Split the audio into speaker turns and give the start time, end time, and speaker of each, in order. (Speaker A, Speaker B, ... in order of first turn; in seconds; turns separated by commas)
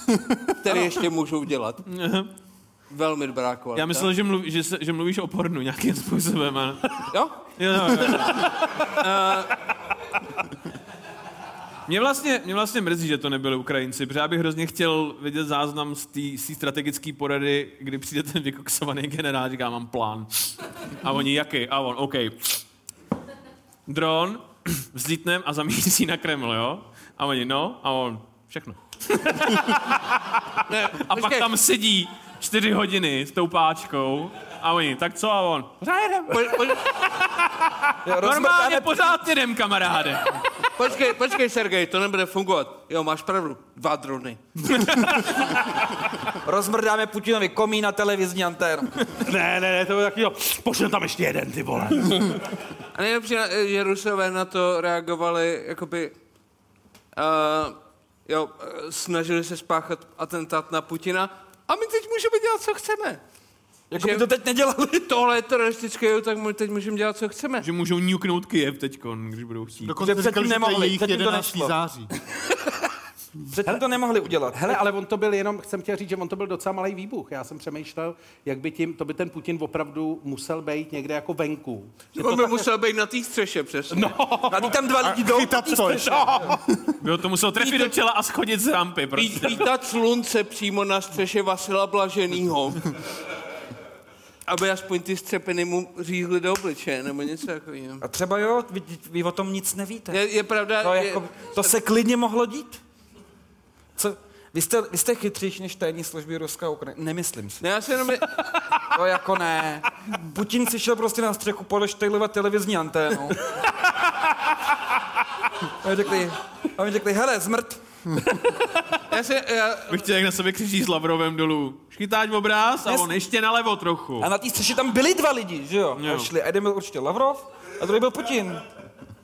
Speaker A: 0.5-1.8, Speaker B: 1.9-2.3, Speaker A: 2.9-4.1, Speaker B: 3.8-8.9, Speaker A: 7.1-7.4, Speaker A: 8.0-9.6, Speaker B: 11.9-22.6, Speaker B: 23.9-36.7, Speaker A: 30.7-31.5, Speaker A: 36.3-36.9, Speaker C: 38.0-39.1, Speaker B: 38.2-40.4, Speaker A: 40.7-44.4, Speaker B: 44.7-45.3, Speaker C: 46.4-49.1, Speaker D: 49.2-52.3, Speaker A: 52.9-56.1, Speaker A: 57.1-63.2, Speaker C: 63.9-65.1, Speaker A: 64.0-64.3, Speaker A: 65.0-67.7, Speaker B: 67.6-70.0, Speaker E: 69.8-72.1, Speaker C: 70.0-71.8, Speaker C: 73.5-74.8, Speaker D: 74.5-82.7, Speaker A: 82.2-84.2, Speaker D: 83.9-85.1, Speaker C: 84.5-86.5, Speaker E: 85.0-86.6, Speaker D: 85.9-86.2, Speaker B: 87.0-89.7, Speaker A: 87.6-87.9, Speaker A: 89.2-92.9, Speaker A: 94.5-98.0, Speaker C: 98.0-100.2, Speaker A: 100.1-101.6, Speaker C: 100.8-102.8, Speaker C: 104.0-107.6, Speaker A: 107.6-108.5, Speaker C: 108.8-113.4, Speaker C: 115.7-117.8, Speaker A: 119.1-120.0, Speaker B: 119.9-124.3, Speaker C: 122.8-123.1, Speaker C: 124.2-128.6, Speaker B: 126.0-126.3